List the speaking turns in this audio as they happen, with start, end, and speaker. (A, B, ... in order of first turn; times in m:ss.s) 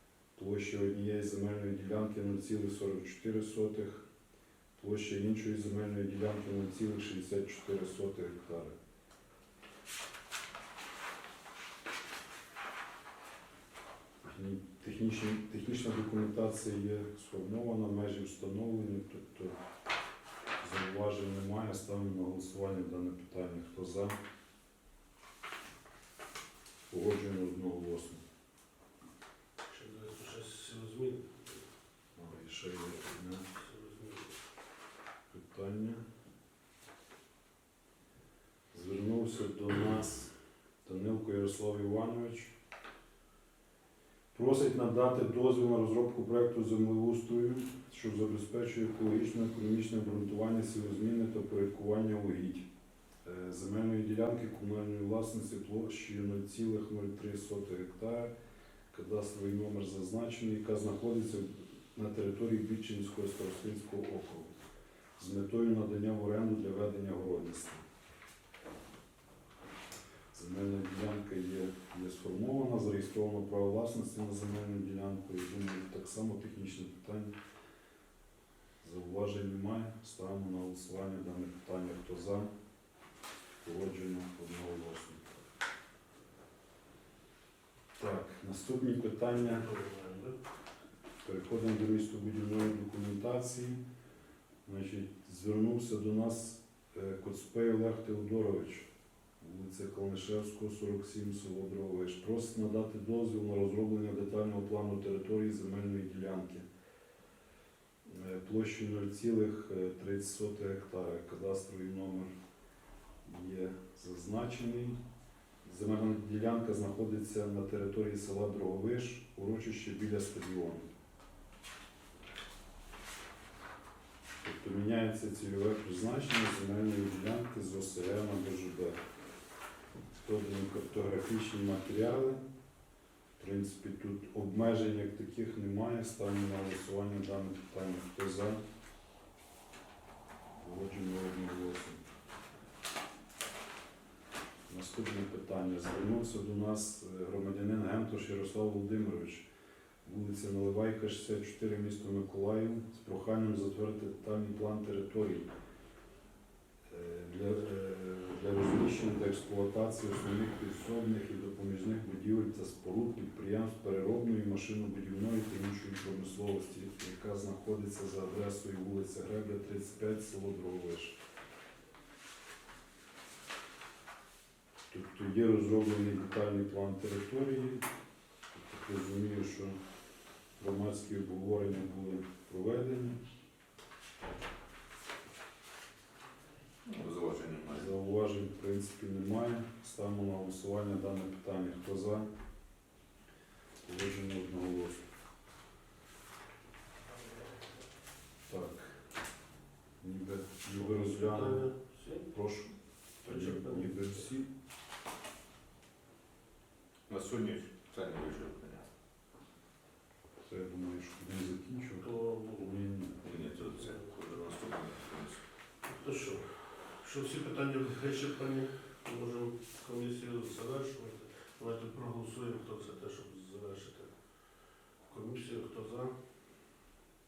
0:00.4-0:04.0 A
0:04.8-0:08.7 A
0:14.2-0:19.6 A
0:20.6-0:24.2 A
0:26.9-0:28.2 A
0:29.6-0:31.6 B
0:32.2-0:33.4 A
0:33.5-0:34.4 B
0:35.3-0:36.0 A
0:38.7-0:40.3 A
0:40.8-0:42.5 A
0:44.3-0:52.6 A
0:53.2-0:58.3 A
0:58.9-1:04.5 A
1:05.2-1:07.8 A
1:10.3-1:17.3 A
1:18.8-1:22.5 A
1:23.6-1:25.2 A
1:28.0-1:29.7 A
1:29.4-1:30.4 B
1:31.2-1:33.8 A
1:34.6-1:38.9 A
1:39.4-1:46.6 A
1:48.0-1:52.3 A
1:53.2-1:55.0 A
1:55.6-2:00.9 A
2:04.4-2:09.0 A
2:10.2-2:12.4 A
2:13.4-2:18.6 A
2:20.6-2:22.0 A
2:24.7-2:29.4 A
2:30.0-2:35.5 A
2:36.9-2:51.2 A
2:54.9-2:57.8 A
2:58.5-2:59.8 A
3:00.6-3:03.2 A
3:06.8-3:07.9 C
3:07.7-3:12.3 A
3:13.8-3:15.0 A
3:18.5-3:19.0 A
3:20.0-3:21.7 A
3:20.7-3:22.3 B
3:22.3-3:22.7 A
3:23.2-3:24.1 B
3:23.2-3:24.5 A
3:27.1-3:28.9 C
3:30.4-3:33.3 A
3:32.0-3:32.7 B
3:33.2-3:35.4 C
3:33.6-3:34.0 B
3:35.8-3:44.1 B
3:45.1-3:46.1 B